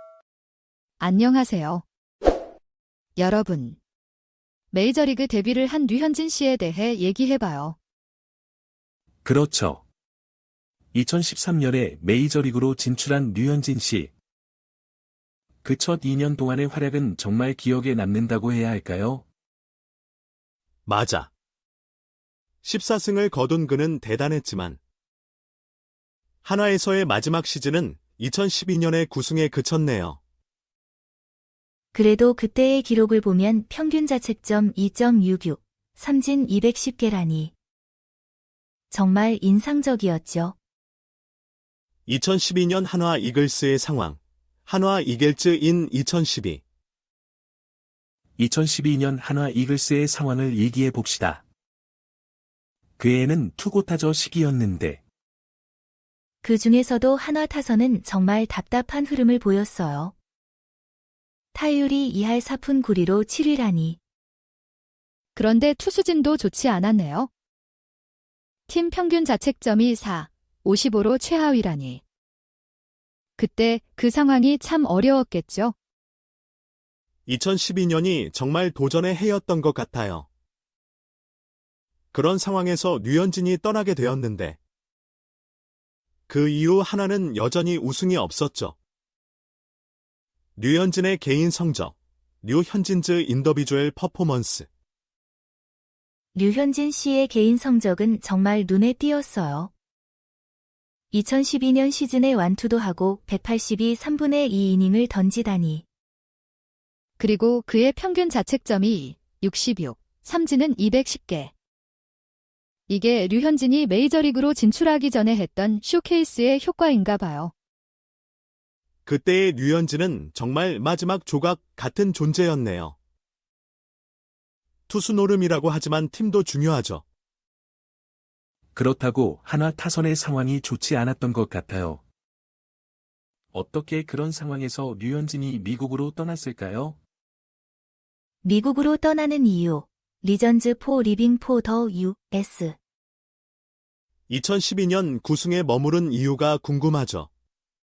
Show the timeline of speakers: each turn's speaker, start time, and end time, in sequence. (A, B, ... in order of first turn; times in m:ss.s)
0:01.0-0:01.8 A
0:03.2-0:03.8 A
0:04.7-0:07.8 A
0:09.2-0:09.8 B
0:10.9-0:14.1 B
0:15.6-0:19.2 B
0:20.9-0:21.3 C
0:22.6-0:24.8 C
0:26.4-0:30.2 C
0:31.9-0:37.5 D
0:38.9-0:40.6 D
0:42.1-0:46.6 C
0:48.4-0:51.4 B
0:53.0-0:55.0 B
0:56.4-1:00.1 D
1:01.5-1:04.0 D
1:05.3-1:07.3 A
1:08.7-1:12.0 A
1:13.4-1:15.7 A
1:17.3-1:20.2 C
1:22.1-1:24.6 C
1:26.3-1:28.8 C
1:30.6-1:34.7 C
1:36.3-1:39.7 D
1:41.1-1:45.8 D
1:47.2-1:51.5 A
1:52.9-1:57.5 A
1:59.0-2:03.0 C
2:04.9-2:07.0 C
2:08.7-2:12.0 B
2:13.5-2:17.0 B
2:18.4-2:22.8 D
2:24.3-2:27.3 C